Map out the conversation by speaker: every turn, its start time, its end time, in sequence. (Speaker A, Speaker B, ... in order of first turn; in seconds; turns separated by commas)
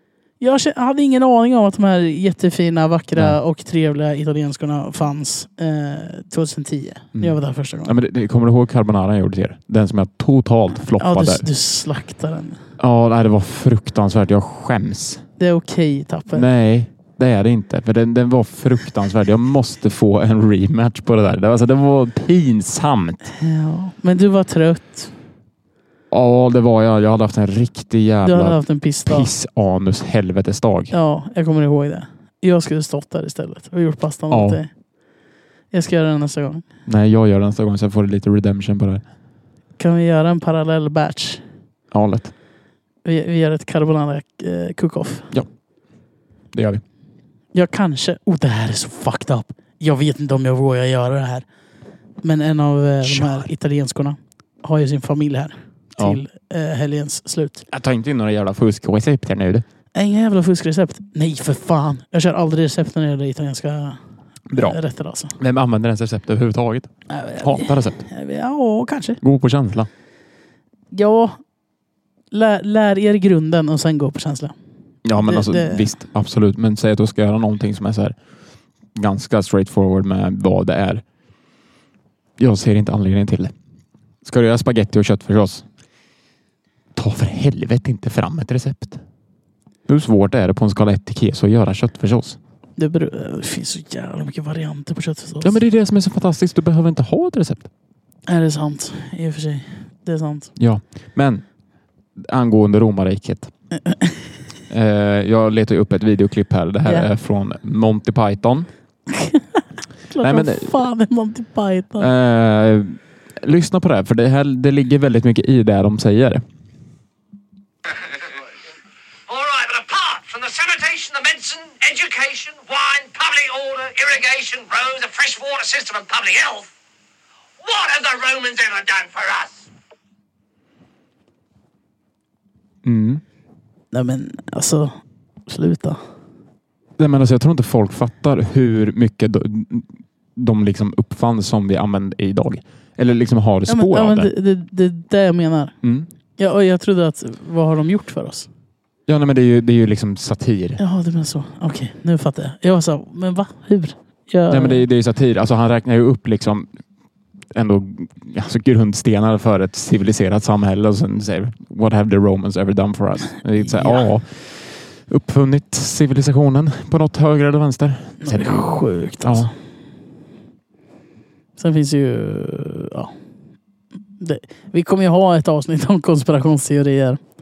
Speaker A: 0.4-8.0, Speaker B: 7.2-11.5, Speaker A: 11.0-12.6, Speaker B: 12.8-15.2, Speaker A: 15.4-16.5, Speaker B: 16.3-23.2, Speaker A: 23.3-25.1, Speaker B: 26.1-30.9, Speaker A: 28.2-29.3, Speaker A: 30.9-34.7, Speaker B: 34.3-34.6, Speaker A: 35.7-36.6, Speaker B: 36.9-39.0, Speaker A: 39.8-41.4, Speaker B: 41.9-42.3, Speaker A: 43.0-45.3, Speaker B: 46.5-46.8, Speaker A: 47.5-51.5, Speaker A: 52.2-57.7, Speaker B: 53.0-53.5, Speaker B: 57.7-59.6, Speaker A: 60.0-64.0, Speaker B: 64.5-64.8, Speaker A: 64.5-65.4, Speaker B: 65.4-68.0, Speaker A: 67.1-69.2, Speaker B: 69.2-69.9, Speaker A: 70.9-71.4, Speaker A: 72.3-74.5, Speaker B: 75.0-78.2, Speaker A: 75.2-75.9, Speaker B: 79.0-81.0, Speaker B: 82.4-83.5, Speaker B: 84.2-85.7, Speaker B: 87.0-89.0, Speaker B: 89.9-92.4, Speaker A: 92.8-95.6, Speaker B: 95.4-97.7, Speaker A: 98.3-100.5, Speaker B: 100.6-101.4, Speaker B: 102.2-103.5, Speaker A: 103.9-104.2, Speaker B: 104.7-108.7, Speaker A: 109.1-112.1, Speaker B: 110.2-110.7, Speaker B: 112.0-116.4, Speaker C: 119.3-126.7, Speaker C: 127.6-129.7, Speaker B: 132.8-133.2, Speaker A: 133.9-136.0, Speaker B: 137.0-144.3, Speaker A: 143.7-145.8, Speaker B: 145.8-146.1, Speaker A: 146.4-148.5, Speaker B: 149.1-150.8, Speaker A: 150.8-154.8, Speaker B: 154.5-156.7, Speaker B: 157.5-168.7, Speaker A: 163.7-164.0, Speaker A: 168.2-169.5, Speaker B: 169.2-169.5, Speaker A: 171.6-173.1, Speaker A: 174.2-177.2